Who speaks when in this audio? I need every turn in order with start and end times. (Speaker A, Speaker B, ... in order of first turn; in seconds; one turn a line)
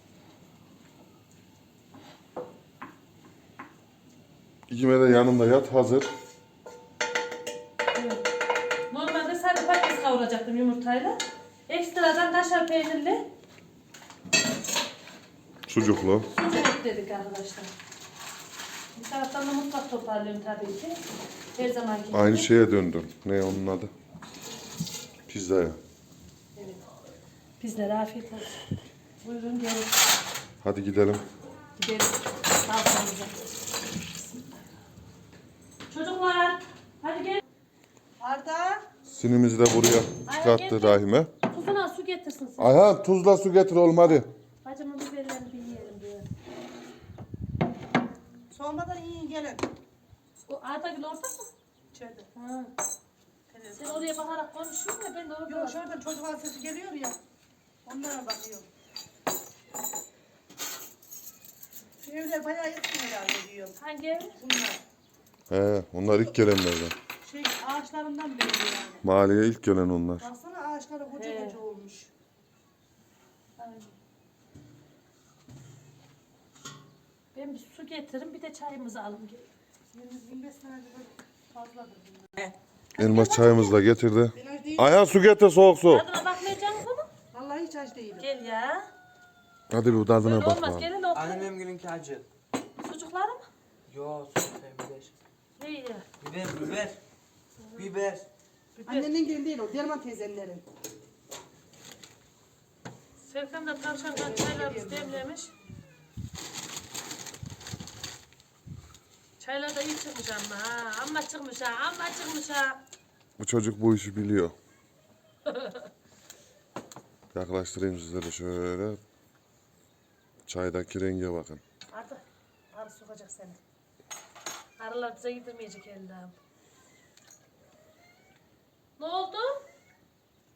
Speaker A: 4.7-6.1
Speaker B: 7.9-8.2
Speaker B: 8.9-13.2
Speaker A: 15.7-16.3
Speaker B: 16.1-17.7
Speaker B: 18.9-21.0
Speaker B: 21.6-22.5
Speaker A: 22.1-23.9
Speaker A: 25.3-25.8
Speaker B: 27.6-28.6
Speaker B: 29.2-29.9
Speaker A: 30.6-31.2
Speaker B: 31.8-33.4
Speaker B: 34.1-34.6
Speaker B: 35.9-37.4
Speaker C: 38.2-38.8
Speaker A: 39.0-41.3
Speaker B: 40.2-42.8
Speaker A: 42.6-44.3
Speaker B: 44.0-46.3
Speaker C: 48.5-49.6
Speaker B: 50.5-51.5
Speaker C: 51.9-52.3
Speaker B: 52.4-52.7
Speaker C: 53.5-54.1
Speaker B: 53.7-55.9
Speaker C: 55.5-57.2
Speaker C: 57.9-58.7
Speaker C: 62.0-63.8
Speaker B: 63.8-64.4
Speaker C: 64.4-64.8
Speaker A: 65.5-67.0
Speaker C: 67.2-69.0
Speaker A: 69.0-70.3
Speaker C: 70.2-72.1
Speaker B: 71.1-71.6
Speaker B: 73.6-73.9
Speaker B: 77.3-79.5
Speaker C: 79.9-82.5
Speaker B: 83.0-83.8
Speaker A: 83.0-86.0
Speaker C: 84.4-84.9
Speaker B: 85.9-87.1
Speaker C: 87.3-88.2
Speaker B: 88.2-88.9
Speaker A: 89.7-90.9
Speaker B: 90.2-91.5
Speaker D: 91.1-92.2
Speaker B: 92.8-93.5
Speaker D: 93.9-95.1
Speaker B: 95.6-96.0
Speaker D: 96.2-97.0
Speaker D: 97.8-98.2
Speaker C: 98.8-100.6
Speaker B: 98.8-99.1
Speaker B: 103.2-105.5
Speaker C: 104.1-105.2
Speaker B: 109.4-112.8
Speaker A: 113.4-114.5
Speaker B: 115.5-115.8
Speaker A: 117.3-119.0
Speaker A: 120.5-121.6
Speaker C: 121.9-123.6
Speaker B: 124.8-126.3
Speaker B: 129.0-129.6